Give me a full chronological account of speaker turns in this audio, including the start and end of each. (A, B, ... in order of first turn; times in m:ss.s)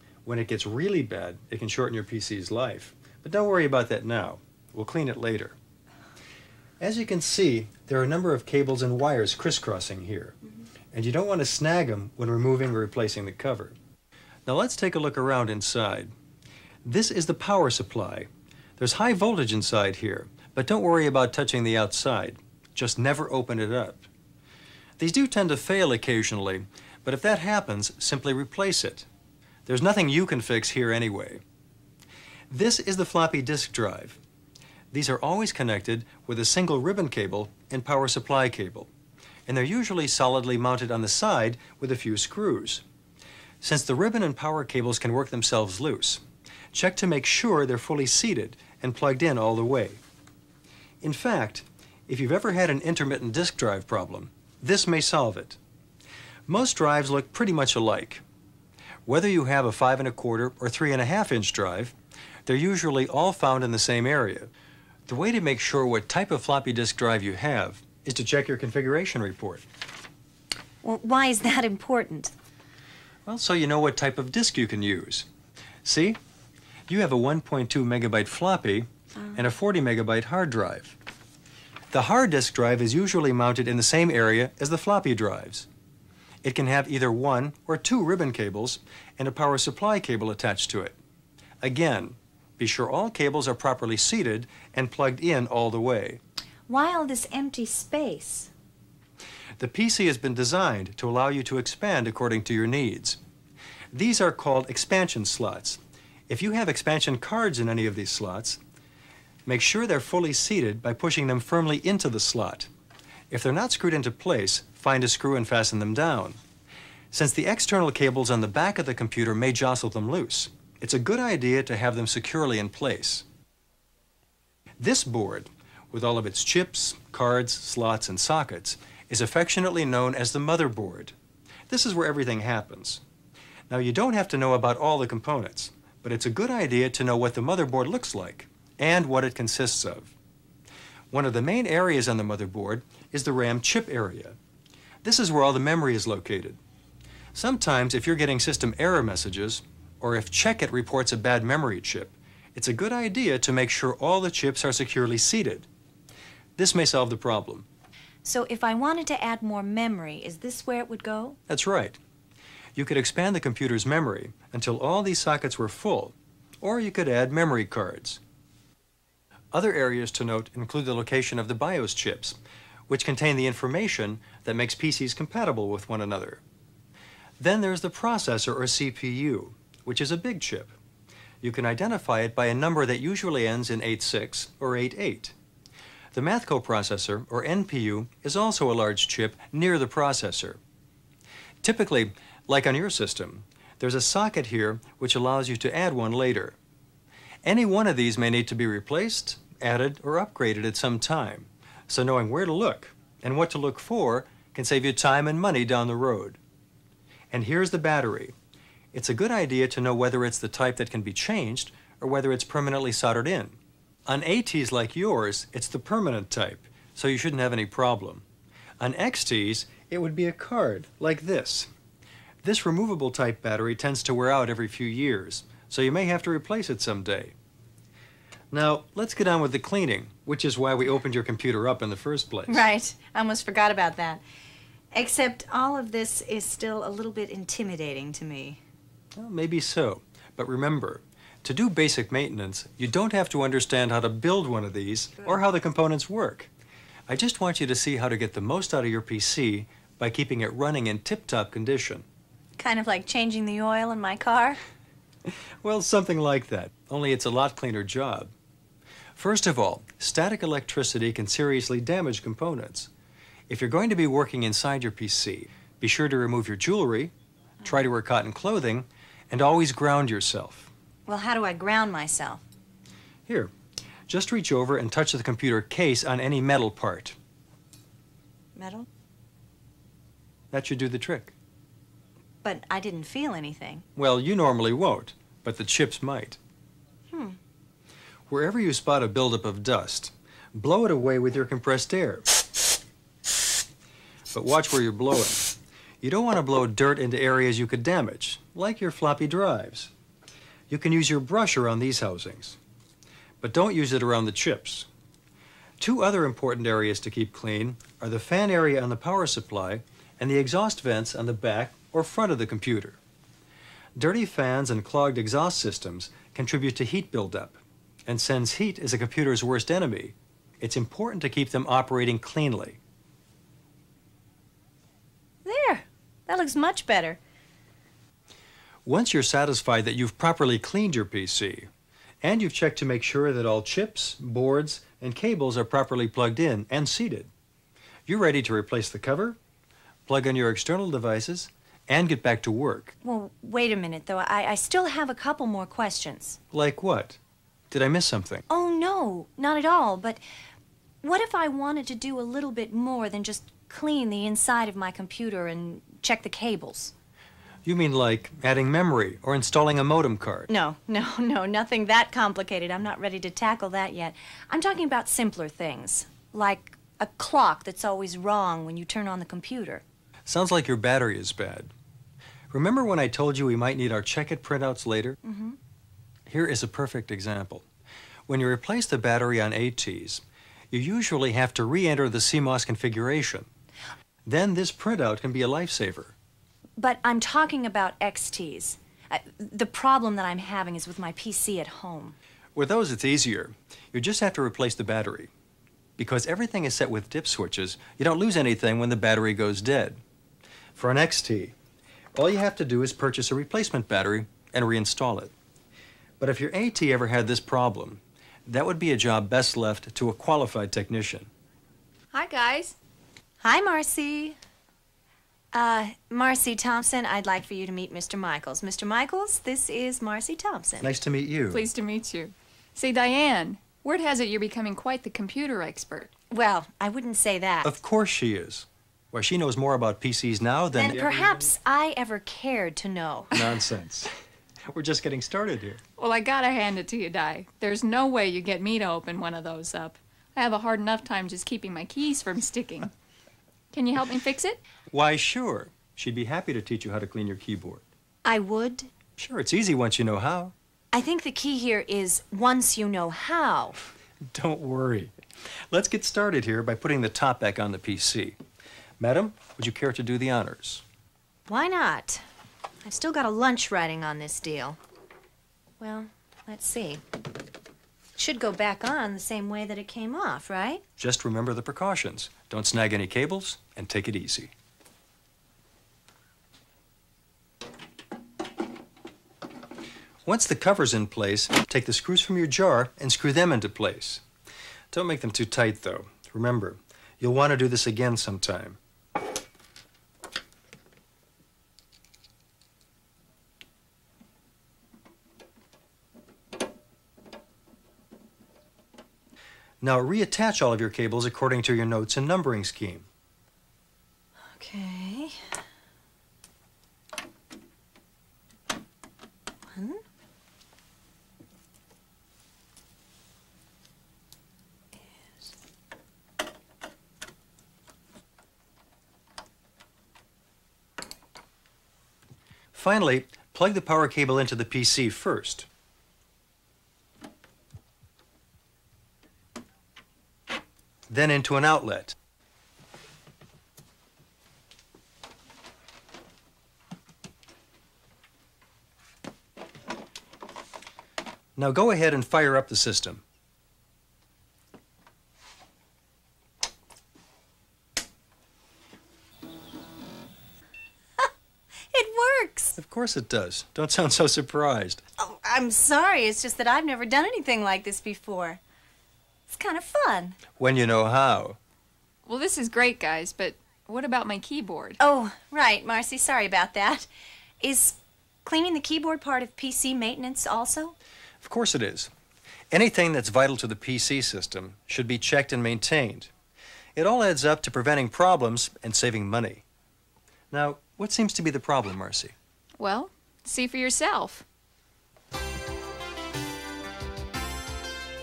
0:00.2-0:05.6 A
0:06.8-0:10.4 A
0:10.9-0:13.7 A
0:14.4-0:16.1 A
0:16.8-0:24.0 A
0:25.0-0:29.1 A
0:29.6-0:31.4 A
0:32.5-0:34.2 A
0:34.9-0:38.9 A
0:39.5-0:42.8 A
0:43.6-0:46.2 A
0:46.7-0:50.0 A
0:51.0-0:55.6 A
0:56.5-0:58.2 A
0:59.0-1:01.9 A
1:02.4-1:04.5 A
1:05.1-1:09.6 A
1:10.8-1:12.3 B
1:13.2-1:15.3 A
1:15.8-1:16.2 A
1:16.9-1:21.0 A
1:21.9-1:25.7 A
1:26.4-1:31.0 A
1:31.6-1:36.2 A
1:36.7-1:38.5 B
1:39.6-1:43.2 A
1:43.9-1:48.6 A
1:49.4-1:52.7 A
1:53.3-1:56.4 A
1:57.1-2:03.2 A
2:04.8-2:11.1 A
2:11.7-2:13.0 A
2:13.7-2:20.1 A
2:21.1-2:24.4 A
2:25.0-2:26.6 A
2:27.3-2:35.7 A
2:36.6-2:37.7 A
2:38.2-2:41.4 B
2:41.5-2:42.0 A
2:42.8-2:48.2 A
2:49.5-2:52.4 A
2:52.9-2:56.4 A
2:57.4-3:00.7 A
3:01.4-3:05.3 A
3:06.1-3:10.6 A
3:11.6-3:16.6 A
3:17.4-3:26.4 A
3:27.3-3:28.3 A
3:28.9-3:38.2 A
3:38.8-3:41.7 A
3:42.4-3:47.3 A
3:48.5-3:52.6 A
3:52.5-3:54.2 B
3:54.9-3:58.6 B
3:59.1-4:06.5 A
4:07.1-4:12.0 A
4:12.6-4:14.6 B
4:15.6-4:18.3 A
4:19.2-4:22.9 A
4:23.5-4:27.1 A
4:27.6-4:30.7 A
4:31.1-4:32.4 B
4:33.3-4:33.5 A
4:34.1-4:37.2 A
4:38.6-4:38.9 B
4:40.5-4:41.3 A
4:42.4-4:43.8 B
4:44.0-4:46.4 A
4:47.1-4:47.4 B
4:48.3-4:52.3 A
4:54.3-4:59.9 A
5:00.7-5:02.6 A
5:03.4-5:04.9 A
5:05.8-5:13.0 A
5:14.0-5:22.8 A
5:25.4-5:27.2 B
5:28.8-5:31.7 A
5:32.2-5:37.3 A
5:38.0-5:39.4 A
5:40.1-5:42.9 A
5:43.0-5:46.4 B
5:46.5-5:47.2 A
5:47.7-5:48.4 A
5:48.5-5:50.2 B
5:51.0-5:56.9 B
5:57.6-6:00.5 A
6:00.5-6:09.8 B
6:10.2-6:11.7 A
6:12.5-6:15.2 A
6:15.2-6:15.6 B
6:16.3-6:17.6 A
6:18.3-6:23.5 A
6:24.2-6:26.1 A
6:26.8-6:32.2 B
6:32.5-6:35.3 A
6:36.0-6:40.0 A
6:40.8-6:41.5 A
6:42.1-6:45.3 A
6:46.2-6:51.3 A
6:52.1-6:52.8 C
6:53.4-6:54.4 B
6:55.5-7:00.9 B
7:00.8-7:01.6 A
7:01.5-7:06.1 C
7:06.3-7:07.7 B
7:07.6-7:11.5 A
7:10.7-7:13.4 B
7:13.3-7:14.1 A
7:14.7-7:15.8 A
7:16.0-7:22.9 C
7:23.7-7:24.6 C
7:24.9-7:27.8 A
7:28.2-7:28.9 B
7:29.2-7:30.5 A
7:30.9-7:33.8 B
7:34.2-7:35.1 A
7:35.7-7:38.4 A
7:39.0-7:40.8 A
7:41.5-7:42.2 B
7:42.8-7:44.8 B
7:45.8-7:47.0 B
7:48.2-7:50.8 B
7:51.0-7:54.5 A
8:00.2-8:04.2 A
8:04.9-8:08.8 A
8:19.8-8:23.0 A
8:24.4-8:25.5 B
8:29.7-8:30.0 B
8:42.7-8:45.7 A
8:51.1-8:52.2 A
9:01.6-9:03.2 A
9:11.9-9:12.8 B
9:12.8-9:15.0 A
9:15.2-9:18.6 B
9:19.5-9:20.4 B
9:20.6-9:21.6 A
9:22.2-9:25.0 C
9:25.0-9:27.1 B
9:27.6-9:31.0 B
9:31.4-9:32.1 A
9:32.7-9:36.3 A
9:37.0-9:39.6 A
9:40.5-9:42.3 A
9:42.8-9:44.4 C